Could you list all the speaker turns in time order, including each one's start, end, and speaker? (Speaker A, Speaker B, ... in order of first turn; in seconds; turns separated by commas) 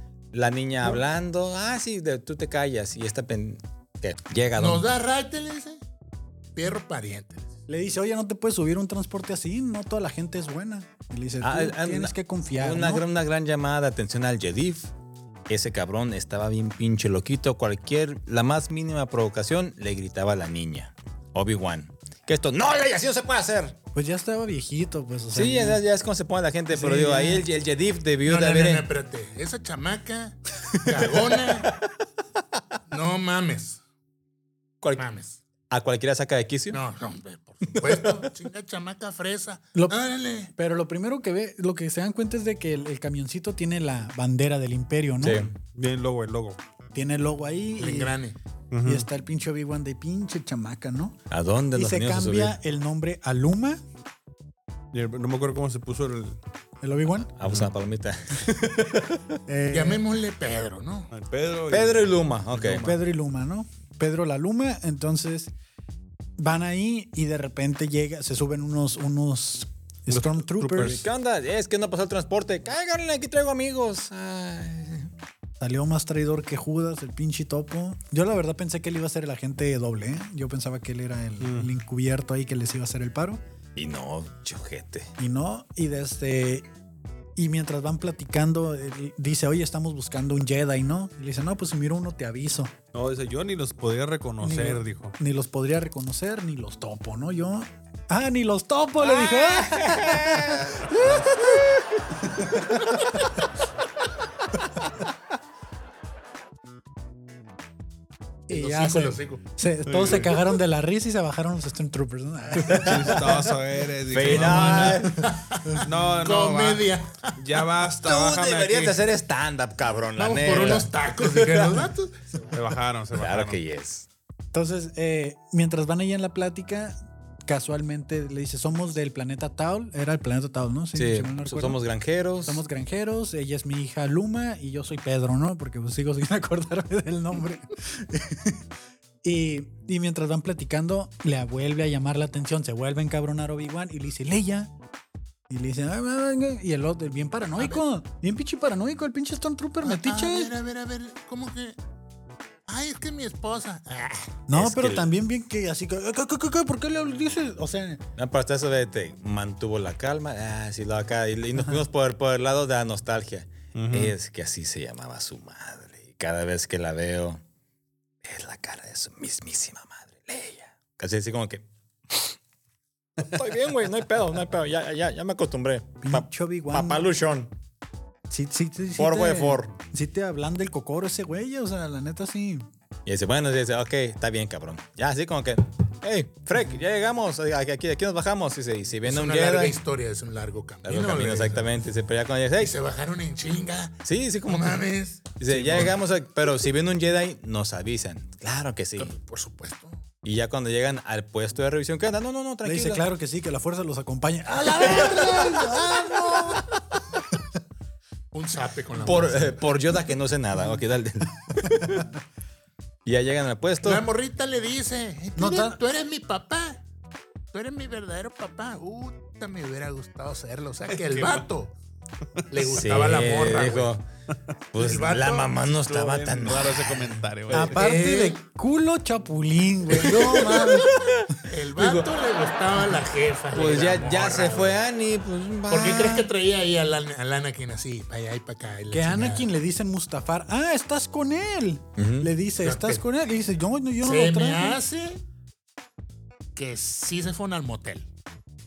Speaker A: 0.3-4.9, Speaker B: 4.6-5.8, Speaker B: 6.5-7.5, Speaker C: 7.7-13.0, Speaker A: 11.4-14.9, Speaker A: 15.5-23.8, Speaker C: 23.9-25.8, Speaker A: 25.3-28.9, Speaker C: 26.7-27.4, Speaker B: 28.2-31.7, Speaker A: 30.7-31.0, Speaker B: 32.9-33.8, Speaker B: 35.0-35.4, Speaker A: 35.7-36.8, Speaker B: 36.7-40.5, Speaker A: 37.7-38.2, Speaker C: 40.5-45.5, Speaker A: 45.2-45.5, Speaker D: 45.6-46.6, Speaker C: 46.9-48.2, Speaker B: 47.8-48.4, Speaker D: 48.7-49.0, Speaker C: 48.8-51.2, Speaker A: 51.3-52.5, Speaker C: 51.7-53.8, Speaker D: 54.9-56.4, Speaker C: 56.8-57.3, Speaker A: 57.4-59.2, Speaker C: 59.5-60.0, Speaker B: 59.7-61.1, Speaker D: 61.1-63.0, Speaker A: 61.7-62.9, Speaker C: 62.7-65.5, Speaker C: 66.4-71.0, Speaker D: 70.1-71.0, Speaker A: 70.8-75.1, Speaker C: 75.6-83.4, Speaker D: 81.4-81.7, Speaker A: 83.8-85.1, Speaker C: 85.2-86.7, Speaker C: 87.4-92.7, Speaker D: 92.9-95.1, Speaker C: 94.4-101.3, Speaker A: 99.0-101.6, Speaker D: 100.9-101.3, Speaker C: 108.5-113.4, Speaker B: 108.5-109.4, Speaker D: 109.9-110.4, Speaker A: 112.6-113.3, Speaker D: 112.7-115.1, Speaker A: 114.1-115.2, Speaker C: 114.3-114.9, Speaker B: 114.6-117.3, Speaker D: 115.8-119.0, Speaker A: 118.0-121.9, Speaker B: 120.2-122.6, Speaker D: 122.5-123.6, Speaker A: 123.1-124.1, Speaker C: 124.5-131.8, Speaker A: 130.9-132.6, Speaker C: 132.4-138.7, Speaker C: 139.2-144.7, Speaker C: 145.5-150.5, Speaker B: 147.6-147.8, Speaker B: 149.8-151.8, Speaker B: 152.7-154.3, Speaker C: 154.5-158.0, Speaker A: 154.5-155.1, Speaker A: 158.2-167.4, Speaker D: 163.7-164.1, Speaker A: 168.2-172.4, Speaker A: 173.2-177.5, Speaker C: 176.0-177.1, Speaker C: 178.3-182.7, Speaker A: 178.9-179.7, Speaker A: 183.1-189.8, Speaker B: 189.0-191.7, Speaker A: 190.8-192.7, Speaker B: 192.6-195.4, Speaker A: 194.0-199.2, Speaker B: 199.0-200.0, Speaker A: 200.2-203.0, Speaker C: 202.6-206.7, Speaker A: 204.8-205.8, Speaker B: 208.3-209.6, Speaker A: 209.0-212.1, Speaker C: 211.7-212.1, Speaker A: 213.1-214.0, Speaker B: 213.8-216.8, Speaker C: 215.4-215.8, Speaker B: 217.5-221.7, Speaker D: 220.9-221.4, Speaker B: 222.5-223.9, Speaker A: 222.6-224.0, Speaker A: 224.7-227.2, Speaker B: 224.8-225.6, Speaker D: 225.9-227.8, Speaker C: 227.5-231.0, Speaker B: 227.5-228.4, Speaker B: 229.9-230.8, Speaker A: 230.0-232.1, Speaker B: 231.5-234.8, Speaker A: 233.5-236.3, Speaker B: 235.7-239.5, Speaker C: 238.9-244.8, Speaker A: 242.0-242.3, Speaker B: 242.6-243.0, Speaker B: 244.0-245.2, Speaker B: 246.5-248.1